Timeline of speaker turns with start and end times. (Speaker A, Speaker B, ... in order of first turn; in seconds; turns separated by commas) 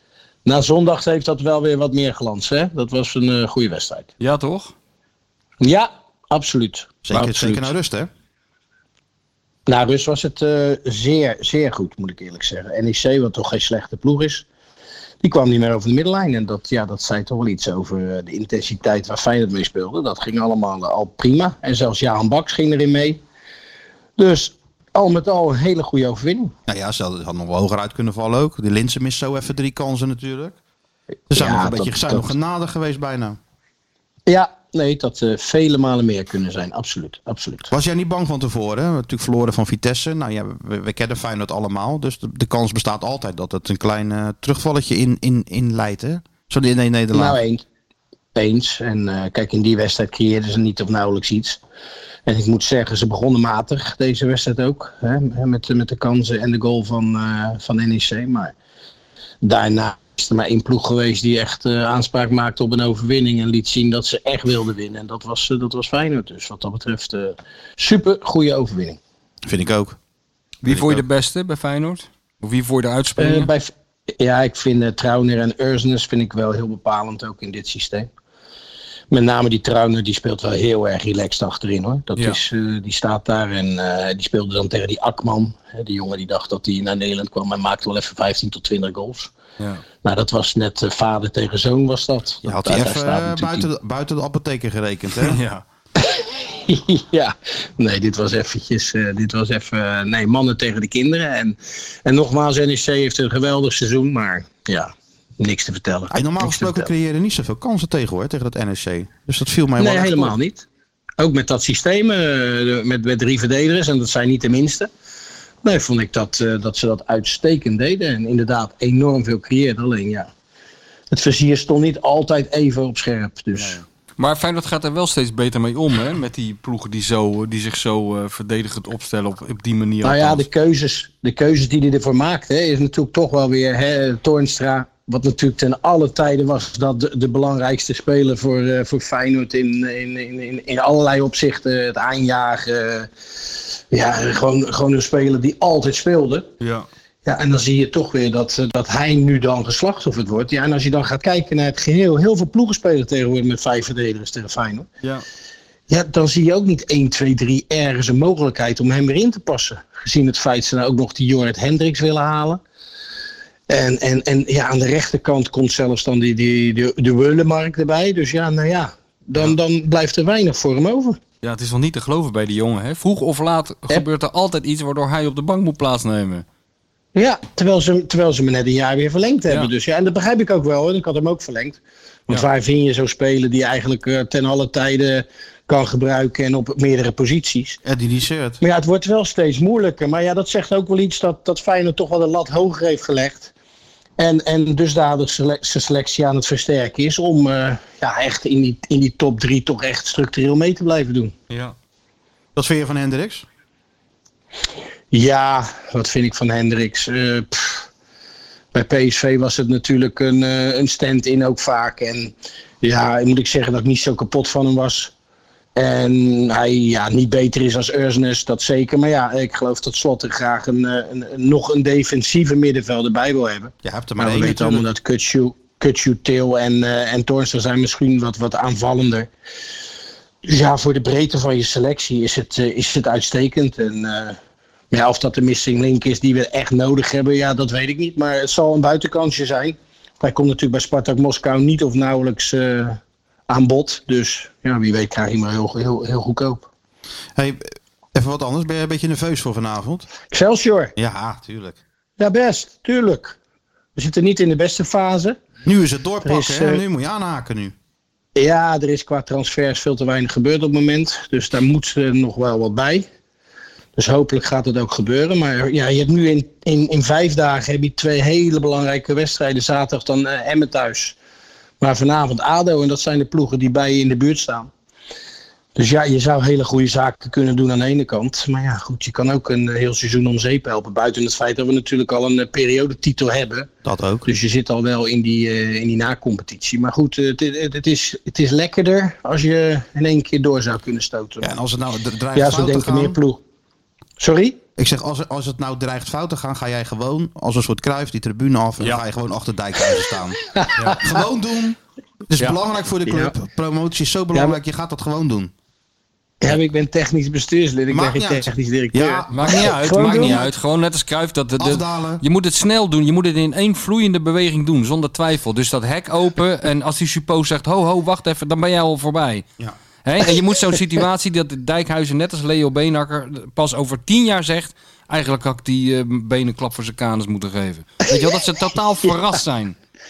Speaker A: 0.4-4.1, Speaker B: 4.2-4.7, Speaker A: 5.6-7.7, Speaker C: 7.0-8.1, Speaker A: 9.7-14.4, Speaker A: 15.2-23.2, Speaker A: 24.2-26.5, Speaker C: 26.7-30.6, Speaker C: 31.3-33.4, Speaker A: 31.3-32.3, Speaker A: 34.3-37.7, Speaker C: 37.7-47.4, Speaker A: 47.1-47.6, Speaker A: 48.3-51.6, Speaker A: 52.2-58.5, Speaker A: 59.4-69.0, Speaker C: 69.4-70.0, Speaker B: 70.6-73.5, Speaker C: 70.6-71.0, Speaker A: 73.2-78.1, Speaker A: 79.1-89.3, Speaker B: 82.2-82.4, Speaker B: 89.6-89.8, Speaker A: 90.0-93.7, Speaker C: 92.4-95.4, Speaker B: 95.2-95.6, Speaker A: 96.0-106.9, Speaker C: 106.1-110.3, Speaker A: 109.8-110.7, Speaker A: 111.2-114.9, Speaker A: 115.6-120.3, Speaker A: 121.1-123.8, Speaker B: 123.5-130.5, Speaker A: 130.0-143.1, Speaker A: 143.9-146.5, Speaker B: 146.6-146.9, Speaker A: 147.2-154.9, Speaker A: 155.9-162.6, Speaker A: 163.7-171.2, Speaker B: 171.4-176.4, Speaker A: 177.1-187.8, Speaker C: 187.8-188.6, Speaker A: 188.6-193.5, Speaker A: 194.2-201.3, Speaker B: 201.5-201.7, Speaker C: 202.5-203.4, Speaker A: 205.1-207.9, Speaker A: 208.7-215.1, Speaker A: 215.7-229.3, Speaker C: 223.8-224.8, Speaker A: 230.4-234.4, Speaker A: 234.9-246.7, Speaker C: 247.3-250.1, Speaker A: 250.3-250.9, Speaker C: 250.9-251.8, Speaker A: 252.2-253.4, Speaker A: 253.9-255.4, Speaker C: 255.6-257.7, Speaker A: 256.2-256.8, Speaker A: 258.4-263.1, Speaker A: 263.9-271.2, Speaker A: 271.8-274.7, Speaker A: 275.7-283.7, Speaker C: 283.8-284.3, Speaker A: 284.2-291.5, Speaker C: 291.4-293.2, Speaker A: 292.3-293.4, Speaker A: 294.2-294.6, Speaker C: 294.8-301.8, Speaker A: 300.4-301.1, Speaker C: 302.3-305.5, Speaker A: 303.1-303.3, Speaker A: 306.4-310.4, Speaker C: 307.9-310.5, Speaker B: 309.3-319.4, Speaker C: 311.6-312.2, Speaker B: 320.0-329.8, Speaker A: 328.0-328.4